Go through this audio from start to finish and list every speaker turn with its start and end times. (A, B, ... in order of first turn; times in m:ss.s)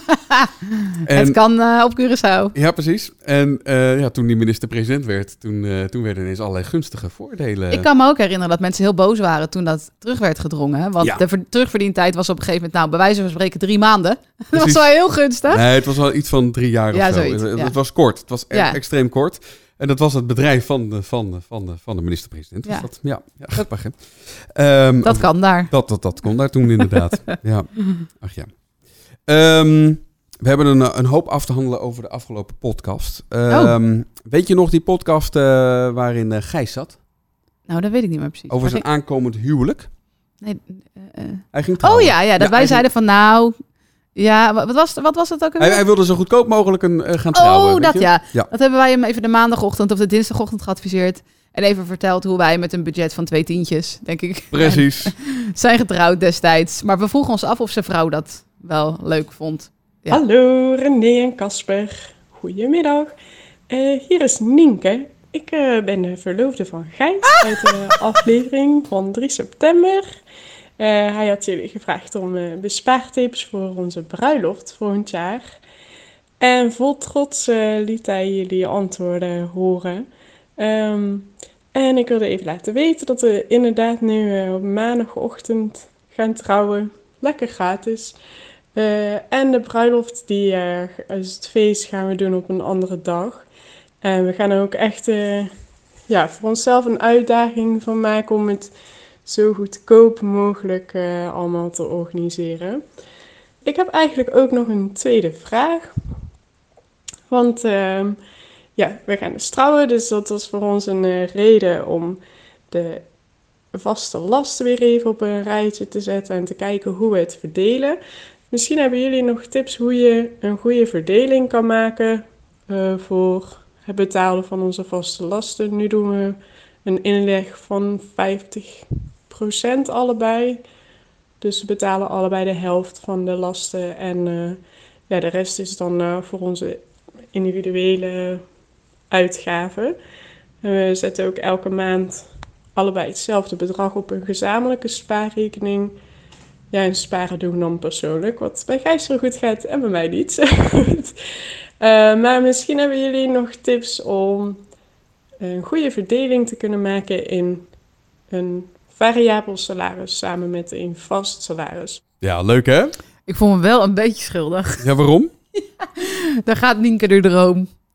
0:00.1-0:02.6 A
0:01.1-0:01.4 B
0:02.6-0:07.9 B
0:07.7-0:15.6 A
0:14.5-0:14.9 B
0:15.5-0:28.5 B
0:16.9-0:17.7 A
0:18.5-0:18.8 A
0:25.0-0:25.7 A
0:29.3-0:37.0 B
0:33.5-0:33.8 A
0:37.7-0:38.8 A
0:38.5-0:39.9 B
0:40.4-0:43.6 A
0:41.5-0:42.8 B
0:44.2-0:45.8 A
0:45.6-0:48.5 B
0:47.3-1:00.2 A
0:54.5-0:55.1 B
1:00.1-1:03.1 C
1:03.7-1:10.2 C
1:10.8-1:15.6 C
1:16.4-1:28.2 C
1:28.8-1:33.5 C
1:34.0-1:35.5 C
1:36.1-1:38.7 C
1:39.2-1:42.8 C
1:43.6-1:45.9 C
1:47.3-1:48.2 C
1:48.8-1:53.1 C
1:53.7-1:58.0 C
1:58.5-2:10.6 C
2:11.4-2:18.4 C
2:19.1-2:20.0 C
2:20.6-2:26.0 C
2:26.7-2:31.2 C
2:31.8-2:34.6 C
2:35.4-2:37.7 C
2:38.3-2:42.0 C
2:42.2-2:43.0 B
2:43.3-2:44.8 A
2:44.8-2:45.3 B
2:45.8-2:47.7 A